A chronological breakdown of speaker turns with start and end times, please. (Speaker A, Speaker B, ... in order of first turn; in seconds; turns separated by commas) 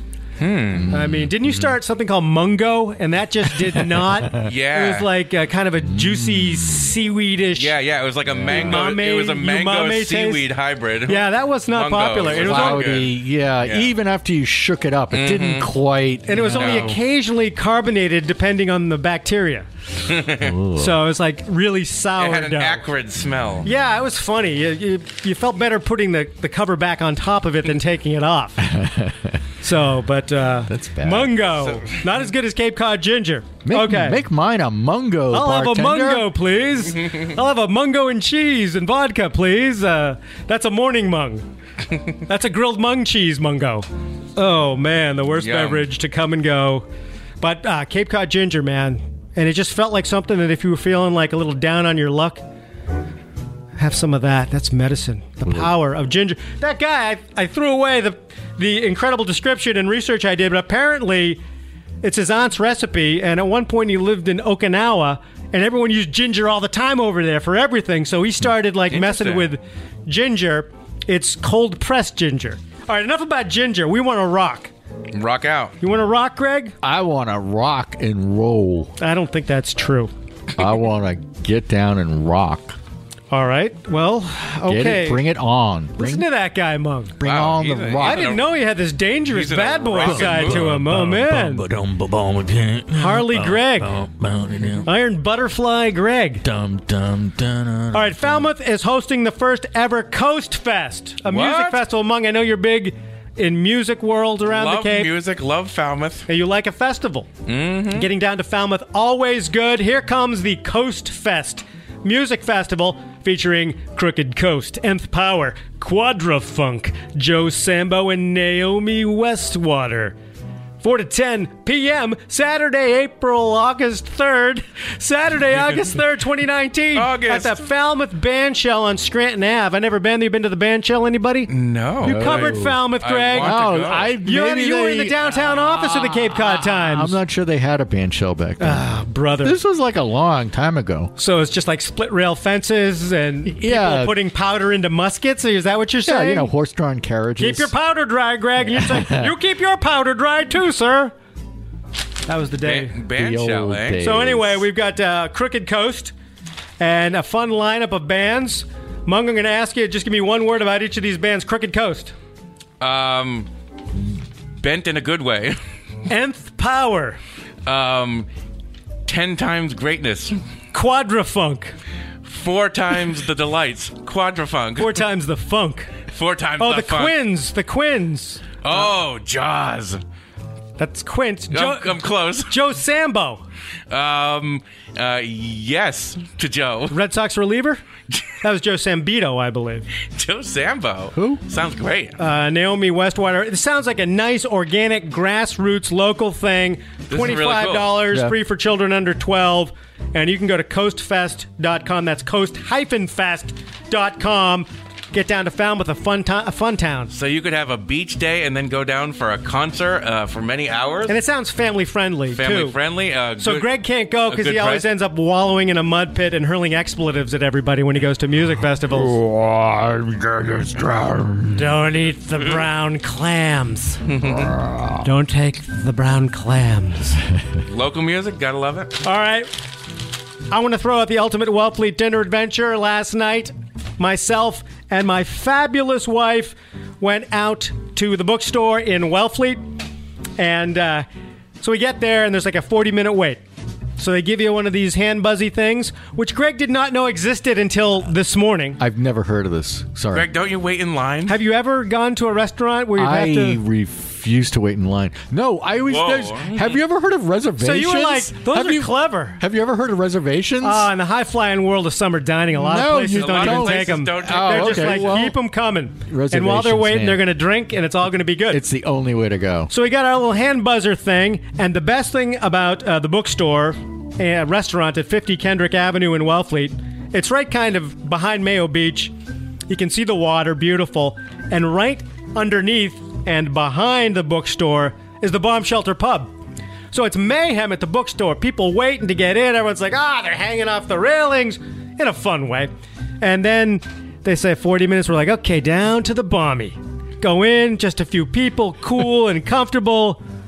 Speaker A: 0.4-0.9, Speaker B: 0.7-1.7, Speaker C: 0.9-7.7, Speaker B: 3.7-4.5, Speaker A: 4.4-5.1, Speaker B: 5.9-6.9, Speaker A: 7.6-13.9, Speaker B: 8.3-8.9, Speaker C: 8.5-10.5, Speaker C: 11.1-12.9, Speaker B: 12.2-17.0, Speaker A: 15.1-15.7, Speaker C: 16.3-19.7, Speaker A: 16.5-17.0, Speaker A: 20.1-20.5, Speaker B: 20.4-21.0, Speaker C: 20.7-22.8, Speaker A: 22.2-23.7, Speaker C: 23.6-28.7, Speaker B: 28.6-29.4, Speaker C: 29.6-34.2, Speaker B: 30.7-31.4, Speaker A: 31.6-32.0, Speaker B: 33.6-36.3, Speaker C: 35.3-41.4, Speaker C: 42.1-46.8, Speaker A: 45.4-45.9, Speaker C: 47.4-52.4, Speaker C: 53.8-61.4, Speaker C: 62.0-74.7, Speaker A: 68.9-69.5, Speaker A: 75.1-75.7, Speaker C: 75.8-76.7, Speaker B: 76.8-78.9, Speaker C: 79.0-80.1, Speaker B: 80.5-82.8, Speaker C: 83.3-85.2, Speaker B: 84.7-86.3, Speaker C: 86.0-87.2, Speaker B: 87.2-88.3, Speaker A: 87.2-88.5, Speaker C: 88.0-91.6, Speaker A: 89.3-90.8, Speaker B: 90.0-94.9, Speaker C: 92.9-93.9, Speaker C: 94.8-96.4, Speaker B: 96.4-98.2, Speaker C: 97.9-105.1, Speaker A: 101.2-101.8, Speaker A: 104.5-106.3, Speaker C: 106.3-107.3, Speaker A: 107.5-108.1, Speaker C: 107.9-120.2, Speaker C: 120.8-131.5, Speaker A: 126.9-127.6, Speaker A: 131.5-134.1, Speaker B: 132.0-132.8, Speaker C: 132.0-133.6, Speaker B: 133.3-141.1, Speaker C: 134.2-137.2, Speaker C: 138.6-139.6, Speaker C: 141.2-146.5, Speaker B: 143.4-144.2, Speaker B: 146.0-147.7, Speaker C: 147.4-151.1, Speaker B: 148.7-149.3, Speaker C: 152.3-153.0, Speaker A: 152.6-154.0, Speaker B: 153.1-154.6, Speaker C: 154.0-156.1, Speaker C: 156.8-162.1, Speaker A: 162.8-163.5, Speaker A: 164.6-165.6, Speaker C: 166.1-167.2, Speaker A: 167.7-168.3, Speaker A: 169.1-170.4, Speaker C: 170.7-171.7, Speaker A: 172.2-174.9, Speaker C: 174.8-175.9, Speaker A: 176.1-177.2, Speaker C: 176.6-178.6, Speaker A: 178.6-180.0, Speaker C: 180.8-183.4, Speaker A: 181.5-182.6, Speaker A: 183.9-187.0, Speaker C: 186.9-187.8, Speaker C: 188.4-189.9, Speaker A: 190.0-192.2, Speaker B: 191.1-191.4, Speaker C: 192.2-207.1, Speaker A: 197.1-198.0, Speaker A: 207.1-211.2, Speaker C: 211.1-212.8, Speaker A: 212.3-213.7, Speaker C: 213.4-219.2, Speaker A: 214.3-214.8, Speaker B: 218.9-221.7, Speaker C: 221.5-224.0, Speaker A: 224.1-224.5, Speaker B: 224.2-225.0, Speaker C: 225.0-227.2, Speaker A: 227.7-228.9, Speaker C: 229.0-229.5, Speaker C: 230.5-239.7, Speaker C: 240.4-241.1, Speaker C: 241.6-243.4, Speaker C: 244.0-248.8, Speaker B: 248.8-250.3, Speaker A: 250.1-251.4, Speaker C: 251.3-253.6, Speaker B: 253.0-260.9, Speaker A: 255.9-256.8, Speaker C: 257.6-259.4, Speaker C: 260.6-268.6, Speaker B: 262.5-265.4, Speaker A: 263.1-265.2, Speaker B: 266.1-267.2, Speaker B: 268.5-269.7, Speaker C: 269.7-279.1, Speaker C: 279.7-286.3, Speaker C: 286.9-292.7, Speaker C: 293.2-300.2